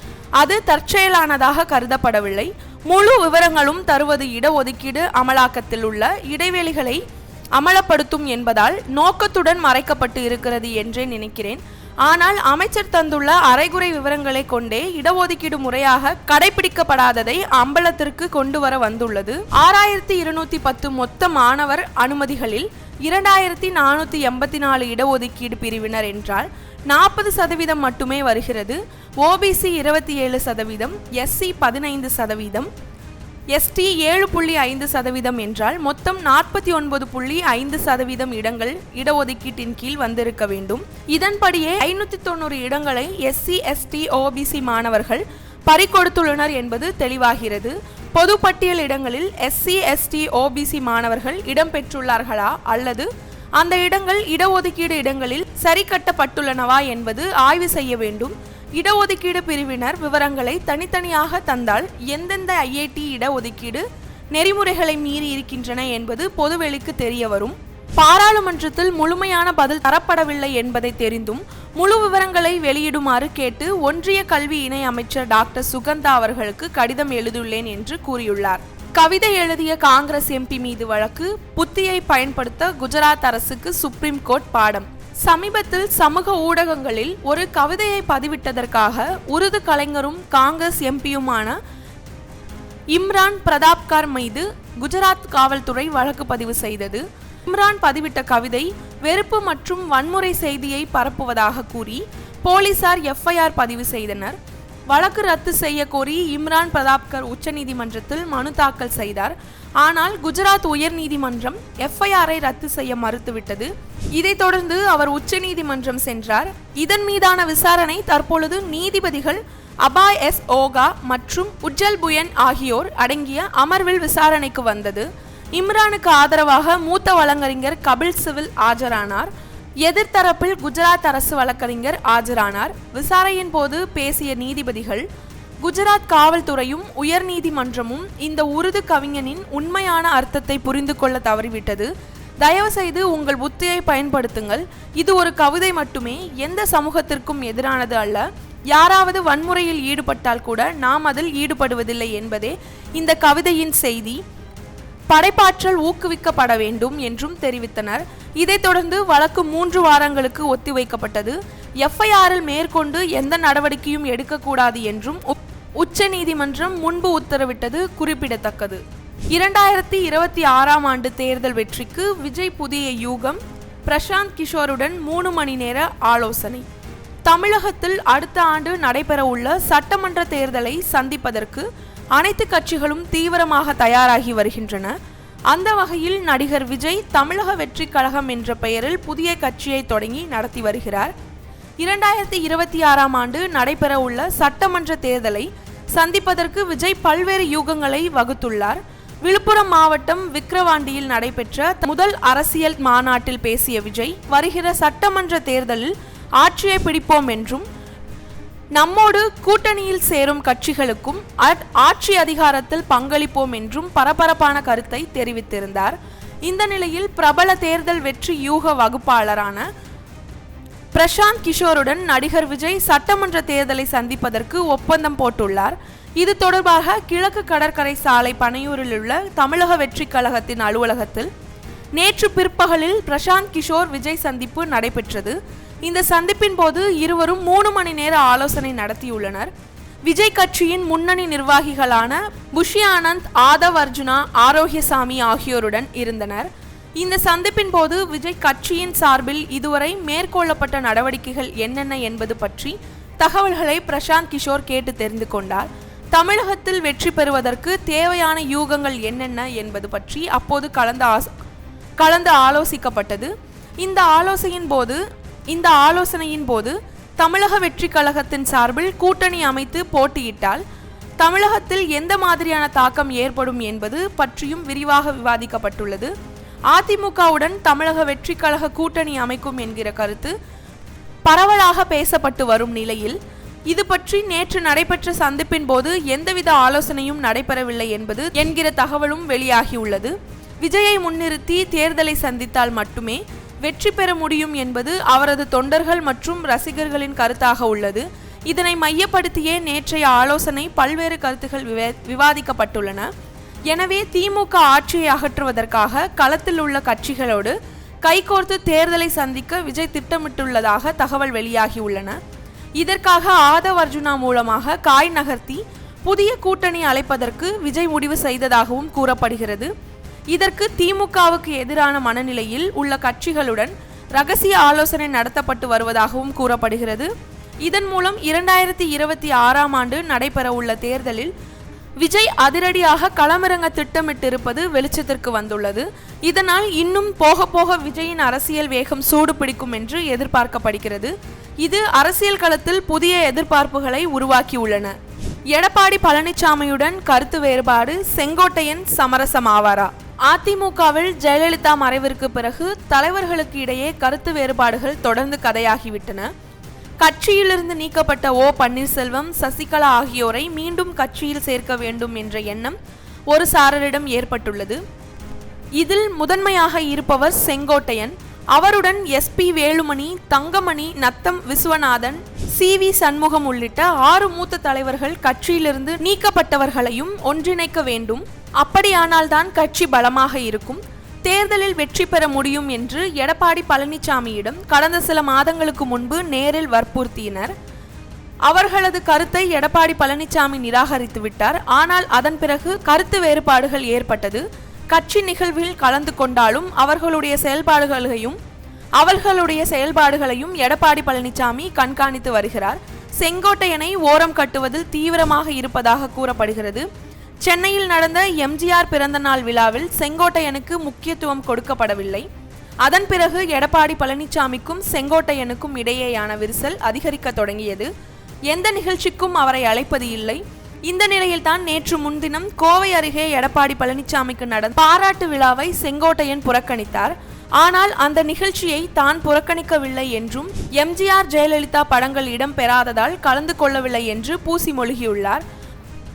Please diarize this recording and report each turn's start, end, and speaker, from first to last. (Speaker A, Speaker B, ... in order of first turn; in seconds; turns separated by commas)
Speaker A: 0.4-7.0, Speaker A: 7.5-32.7, Speaker A: 33.5-91.6, Speaker A: 92.9-104.4, Speaker A: 104.9-129.3, Speaker A: 129.8-135.0, Speaker A: 135.6-141.9, Speaker A: 142.4-154.2, Speaker A: 155.1-176.7, Speaker A: 177.2-184.9, Speaker A: 185.5-191.1, Speaker A: 191.8-207.6, Speaker A: 208.8-219.6, Speaker A: 220.9-231.3, Speaker A: 231.9-239.5, Speaker A: 240.1-261.3, Speaker A: 262.0-270.6, Speaker A: 271.2-276.1, Speaker A: 276.7-280.3, Speaker A: 281.3-283.2, Speaker A: 283.7-303.1, Speaker A: 303.7-312.2, Speaker A: 312.8-319.7, Speaker A: 320.3-327.1, Speaker A: 327.6-331.3, Speaker A: 332.0-344.9, Speaker A: 345.5-356.3, Speaker A: 357.0-362.8, Speaker A: 363.3-364.8, Speaker A: 365.8-387.5, Speaker A: 388.5-398.4, Speaker A: 399.0-406.8, Speaker A: 407.4-412.2, Speaker A: 412.8-417.9, Speaker A: 418.5-435.4